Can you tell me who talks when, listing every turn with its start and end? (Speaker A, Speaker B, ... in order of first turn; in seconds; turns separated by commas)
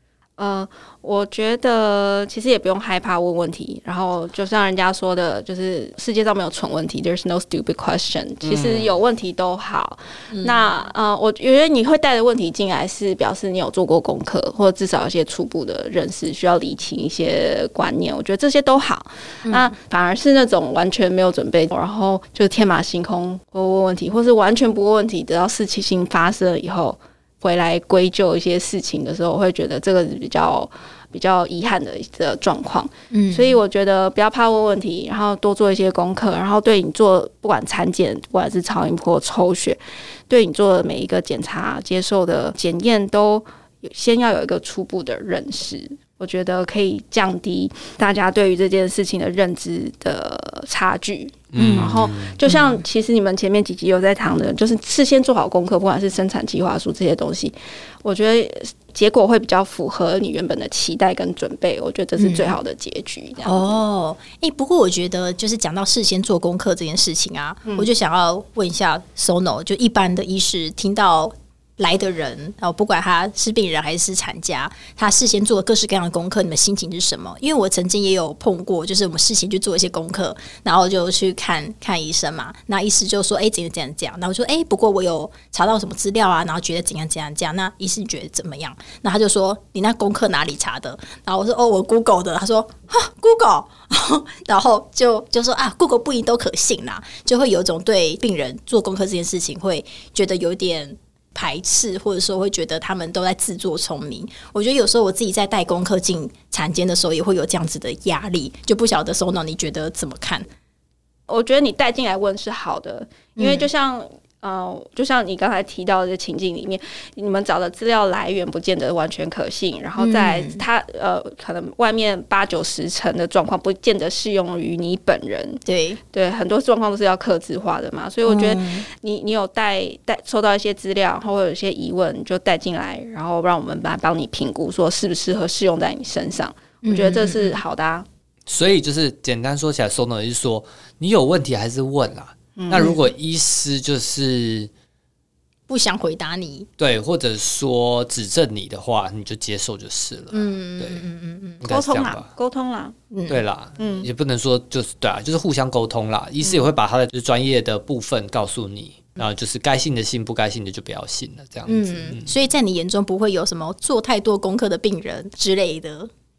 Speaker A: 0.4-63.8, Speaker B: 8.4-8.9, Speaker C: 10.3-10.7, Speaker C: 19.4-19.7, Speaker C: 33.1-33.6, Speaker B: 51.5-52.4, Speaker C: 51.5-52.8, Speaker C: 62.2-62.5, Speaker C: 63.4-110.5, Speaker A: 111.3-125.6, Speaker C: 113.4-113.7, Speaker C: 120.0-120.6, Speaker C: 125.7-126.0, Speaker A: 126.1-138.1, Speaker C: 128.2-128.9, Speaker C: 136.8-137.6, Speaker B: 138.4-144.7, Speaker A: 142.6-143.0, Speaker C: 145.7-146.7, Speaker B: 146.8-151.1, Speaker C: 150.3-151.6, Speaker B: 151.6-152.3, Speaker A: 151.7-152.9, Speaker C: 153.1-153.4, Speaker B: 153.3-162.3, Speaker A: 153.8-154.1, Speaker C: 161.7-166.1